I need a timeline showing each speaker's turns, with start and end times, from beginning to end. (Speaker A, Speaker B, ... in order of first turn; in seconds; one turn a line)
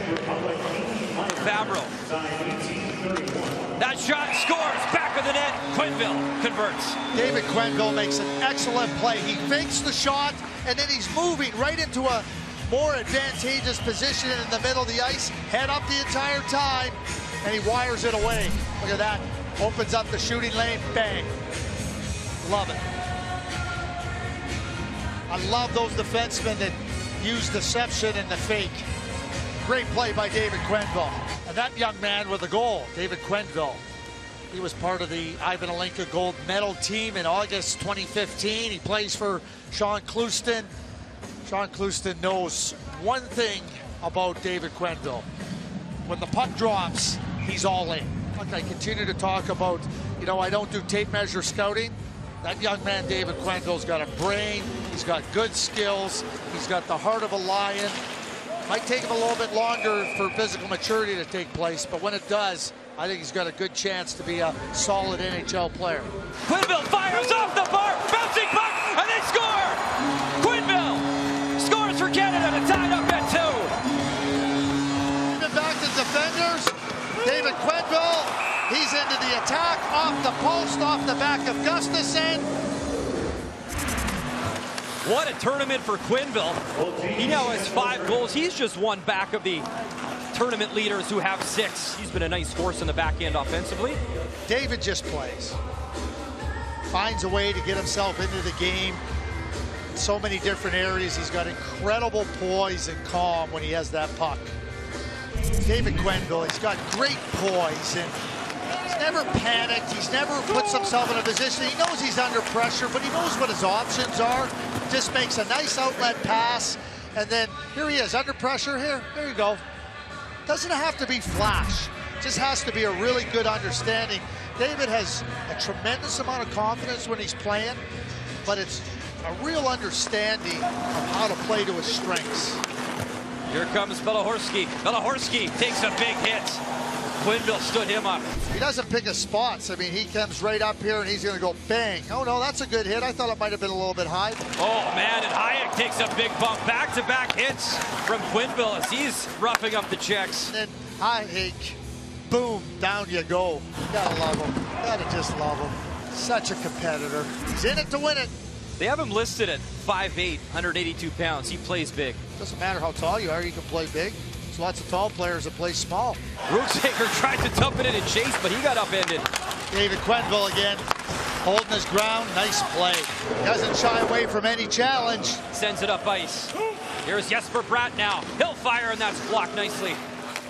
Speaker A: 1.2-2.0
Speaker A: 3.8-7.0
Speaker B: 7.1-21.3
Speaker B: 22.4-22.8
Speaker B: 25.3-28.9
Speaker B: 29.6-33.8
Speaker B: 34.5-40.7
Speaker B: 41.4-45.3
Speaker B: 46.0-58.0
Speaker B: 58.7-66.1
Speaker A: 66.5-69.8
Speaker A: 70.4-73.7
Speaker B: 75.3-82.5
Speaker A: 85.0-86.6
Speaker A: 87.1-89.7
Speaker A: 90.3-94.0
Speaker B: 94.5-95.6
Speaker B: 96.9-99.0
Speaker B: 99.9-104.5
Speaker B: 105.6-108.1
Speaker B: 108.8-119.6
Speaker B: 120.5-127.8
Speaker B: 128.4-132.6
Speaker A: 133.5-136.6
Speaker A: 137.2-138.2
Speaker B: 138.5-144.4
Speaker A: 144.6-150.5
Speaker B: 150.5-151.8
Speaker B: 152.3-158.3
Speaker A: 158.8-162.2
Speaker B: 162.4-166.2
Speaker A: 166.5-169.3
Speaker B: 169.7-170.8
Speaker B: 171.4-175.4
Speaker A: 175.5-176.5
Speaker A: 177.0-180.0